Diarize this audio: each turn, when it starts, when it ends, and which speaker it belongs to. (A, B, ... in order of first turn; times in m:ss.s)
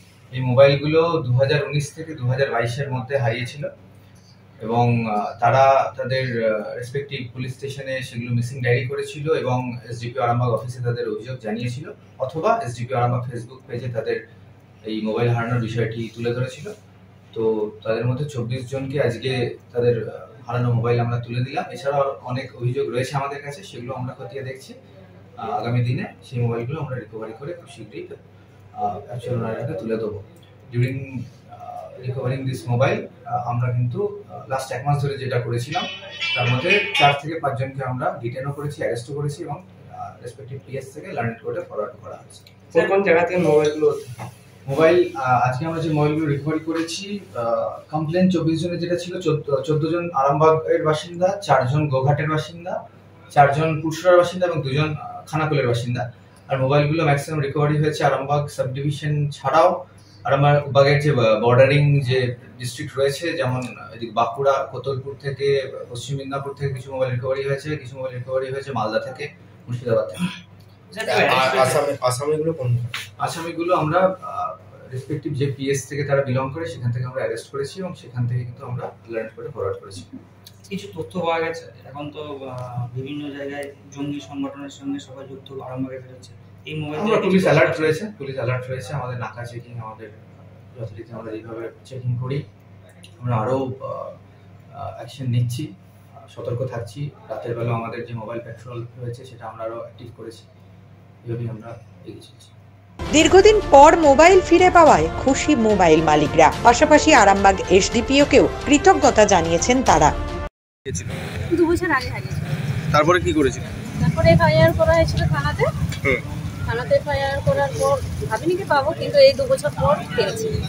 0:00.3-0:03.7 A
0:04.6-0:14.2 A
0:14.9-0:16.7 A
0:17.3-0:24.8 A
0:25.4-0:28.2 A
0:28.8-0:43.0 A
0:42.7-0:44.0 B
0:42.7-0:43.0 C
0:44.6-0:52.8 A
0:53.3-1:10.3 A
1:10.9-1:11.9 C
1:11.0-1:13.0 B
1:13.2-1:20.1 A
1:20.7-1:28.0 C
1:26.9-1:32.4 A
1:33.2-1:34.2 A
1:34.7-1:35.7 A
1:36.3-1:40.5 A
1:41.2-1:42.5 A
1:43.1-1:50.1 D
1:51.5-1:52.7 E
1:52.9-1:53.7 B
1:54.0-1:55.7 E
1:56.6-2:00.5 E